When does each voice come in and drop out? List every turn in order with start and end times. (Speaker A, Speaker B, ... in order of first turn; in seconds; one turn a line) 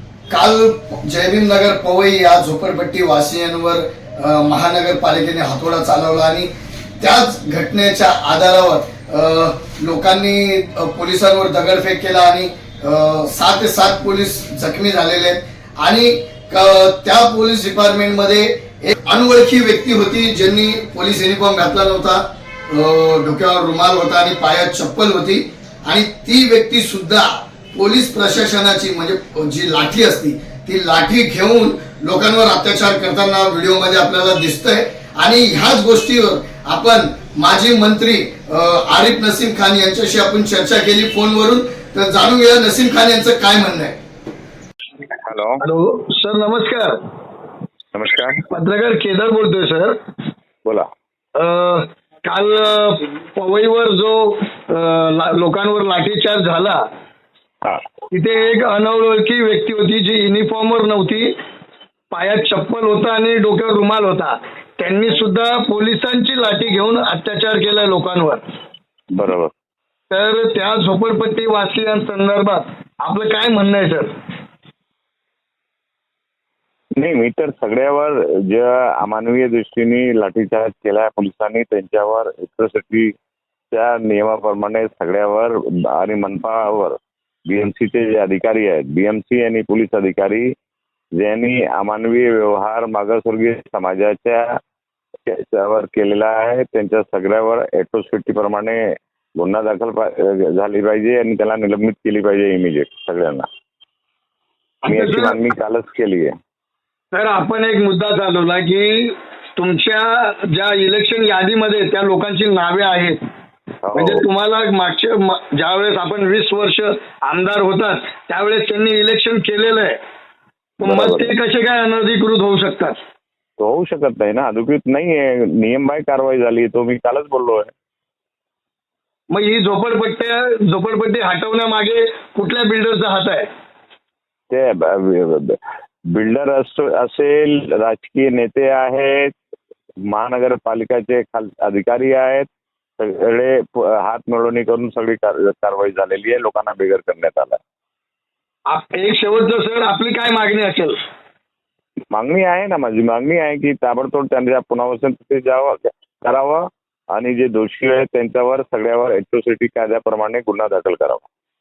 Speaker A: 0.3-44.0
Speaker B: 45.2-45.6
Speaker C: 45.6-47.0
Speaker B: 47.9-48.4
Speaker C: 48.5-49.9
Speaker C: 51.4-56.8
Speaker C: 58.1-61.3
Speaker C: 62.1-68.4
Speaker B: 69.1-69.5
Speaker C: 70.1-74.1
Speaker B: 77.0-83.1
Speaker B: 83.7-90.5
Speaker B: 91.2-94.5
Speaker B: 95.3-98.8
Speaker B: 99.4-103.5
Speaker C: 104.8-105.4
Speaker B: 104.9-106.3
Speaker C: 107.1-113.2
Speaker B: 113.8-114.2
Speaker C: 113.9-120.0
Speaker C: 120.8-123.0
Speaker B: 120.8-121.3
Speaker B: 123.6-127.7
Speaker C: 129.3-133.5
Speaker B: 134.5-135.6
Speaker B: 136.1-139.3
Speaker B: 140.1-142.5
Speaker B: 143.0-147.6
Speaker C: 148.7-151.0
Speaker B: 152.1-156.6
Speaker B: 157.1-161.2